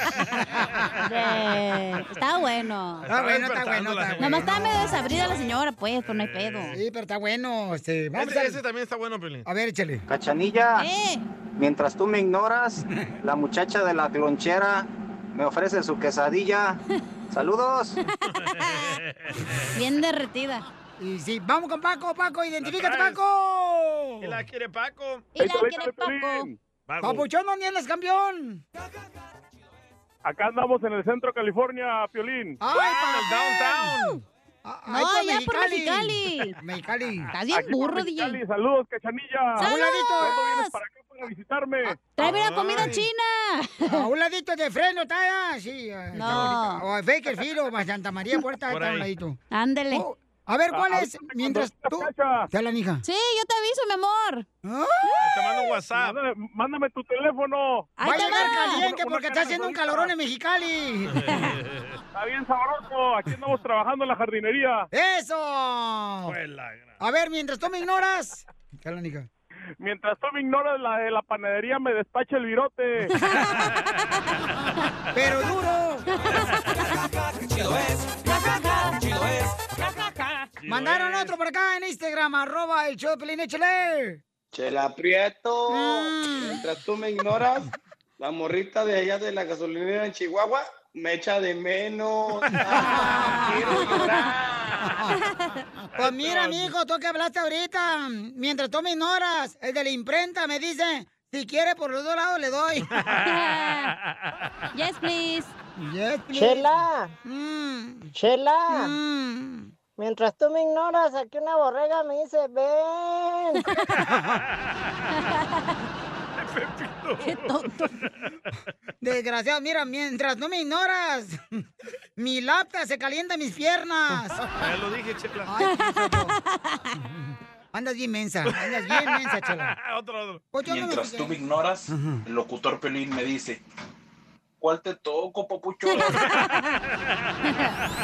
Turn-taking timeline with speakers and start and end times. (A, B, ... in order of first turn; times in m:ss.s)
0:00.6-0:00.9 A
0:01.0-0:03.1 B
0:03.0-0:05.3 A
0:03.1-0:04.7 C
0:04.2-0:06.8 B
0:06.0-0:06.8 A
0:06.7-0:08.6 C
0:08.2-0:09.5 A
0:09.5-0:10.0 C
0:10.1-0:10.8 D
0:10.8-0:11.3 B
0:11.6-0:16.8 D
0:17.3-0:18.0 D
0:18.2-0:19.0 B
0:18.4-0:19.7 A
0:19.7-0:20.6 B
0:21.0-0:24.4 C
0:22.6-0:23.2 A
0:24.2-0:25.4 A
0:25.4-0:26.5 B
0:25.4-0:26.6 E
0:26.9-0:27.3 A
0:27.0-0:28.6 C
0:30.2-0:32.6 E
0:32.6-0:33.9 C
0:32.7-0:34.2 A
0:34.6-0:37.3 C
0:34.9-0:36.6 B
0:37.3-0:38.4 B
0:37.5-0:42.0 E
0:39.6-0:40.7 B
0:39.6-0:40.4 C
0:42.1-0:44.1 B
0:42.2-0:43.0 A
0:42.8-0:43.0 C
0:43.9-0:49.4 C
0:46.2-0:46.8 B
0:48.7-0:49.1 A
0:49.5-0:50.1 B
0:49.9-0:53.0 C
0:50.7-0:52.5 E
0:53.0-0:54.4 B
0:54.6-0:55.0 C
0:55.2-0:56.2 A
0:56.0-1:00.1 E
0:58.0-0:58.9 B
0:58.0-1:01.3 C
1:01.1-1:02.0 A
1:02.1-1:04.9 E
1:04.9-1:06.4 C
1:06.3-1:07.0 A
1:07.0-1:09.3 C
1:09.8-1:13.1 E
1:13.2-1:13.7 B
1:15.1-1:16.1 C
1:16.2-1:16.9 B
1:16.3-1:16.8 A
1:18.3-1:19.0 B
1:20.6-1:21.3 A
1:20.7-1:24.2 C
1:24.5-1:27.7 F
1:25.7-1:26.6 C
1:28.2-1:34.4 F
1:32.7-1:33.3 C
1:33.2-1:34.3 B
1:34.8-1:35.2 C
1:35.1-1:35.6 B
1:36.0-1:43.0 C
1:36.0-1:36.7 A
1:42.9-1:44.3 A
1:43.2-1:43.9 B
1:44.7-1:45.5 B
1:45.8-1:46.7 C
1:46.3-1:47.1 G
1:47.2-1:48.1 C
1:48.1-1:49.0 G
1:48.7-1:49.7 C
1:50.0-1:53.6 G
1:54.1-1:54.4 C
1:55.2-1:55.7 B
1:56.4-1:58.1 A
1:57.2-1:58.0 B
1:59.0-2:01.6 C
2:02.2-2:04.5 C
2:04.6-2:05.5 A
2:05.5-2:06.4 C
2:05.7-2:06.9 B
2:07.0-2:09.7 C
2:08.4-2:10.4 A
2:10.5-2:11.4 C
2:10.6-2:13.6 F
2:11.9-2:12.2 C
2:14.6-2:16.1 F
2:15.9-2:16.7 B